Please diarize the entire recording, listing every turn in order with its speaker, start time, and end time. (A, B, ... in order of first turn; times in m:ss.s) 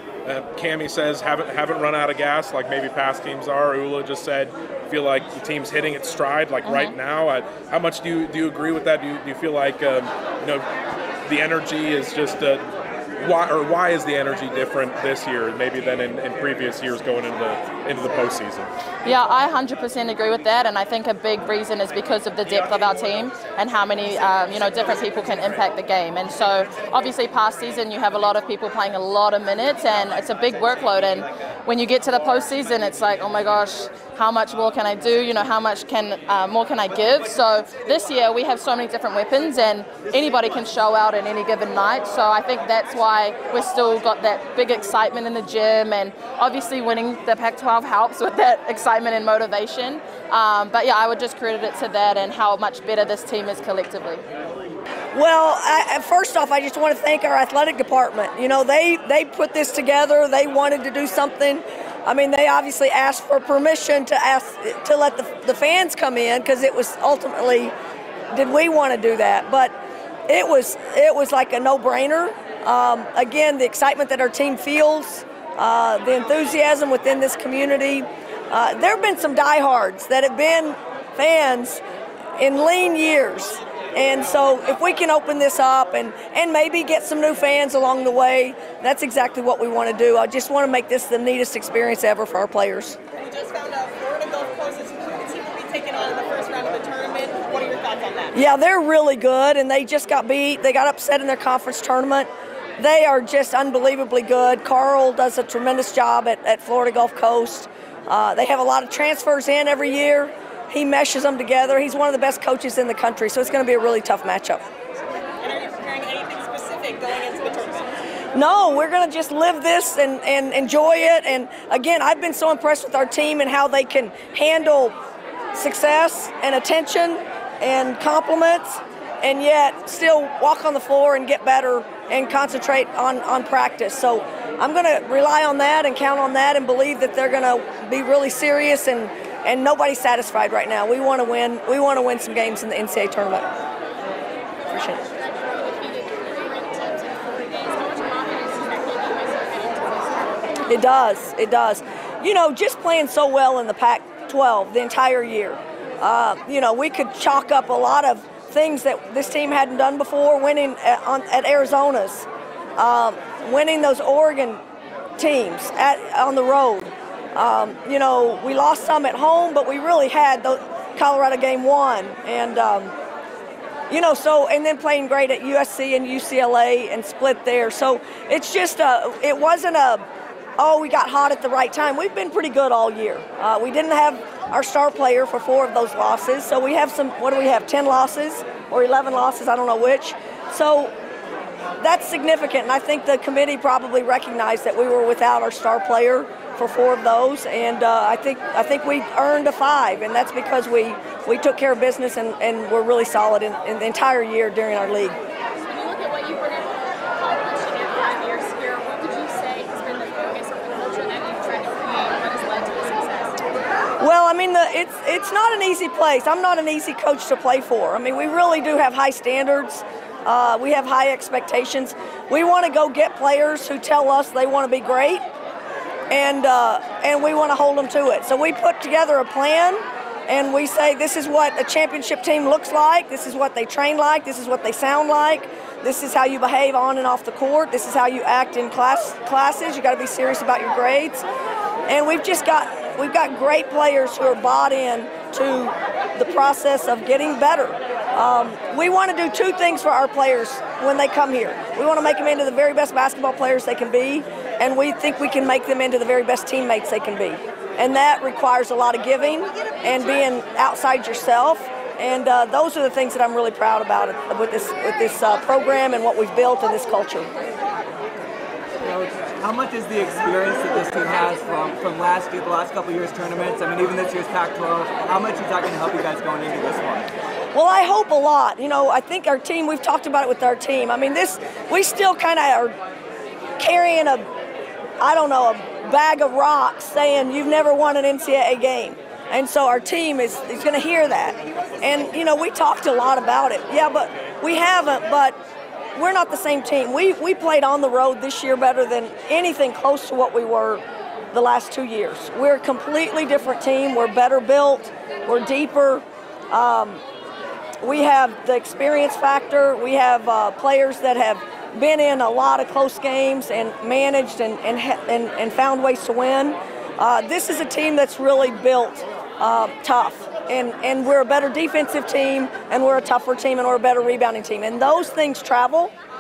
0:00.2-0:10.7 A
0:06.6-0:07.0 B
0:11.2-0:12.6 A
0:13.2-0:18.7 A
0:19.0-0:54.2 B
0:55.1-1:07.8 C
1:08.3-1:09.8 C
1:10.3-1:21.8 C
1:22.4-1:33.0 C
1:33.2-1:38.4 D
1:38.3-1:54.6 C
1:55.4-1:57.9 D
1:58.3-2:05.0 C
2:05.6-2:23.5 C
2:24.7-2:25.0 C
2:24.8-2:30.7 E
2:30.7-2:44.6 C
2:45.2-2:53.0 C
2:53.9-3:00.1 C
3:00.6-3:11.0 C
3:11.8-3:25.2 C
3:25.7-3:33.5 E
3:34.0-3:45.3 C
3:46.1-4:01.3 C
4:01.9-4:27.3 C
4:28.8-4:37.1 F
4:37.5-4:42.8 C
4:43.6-4:44.3 C
4:45.0-4:55.4 C
4:56.0-5:07.0 C
5:07.8-5:26.0 C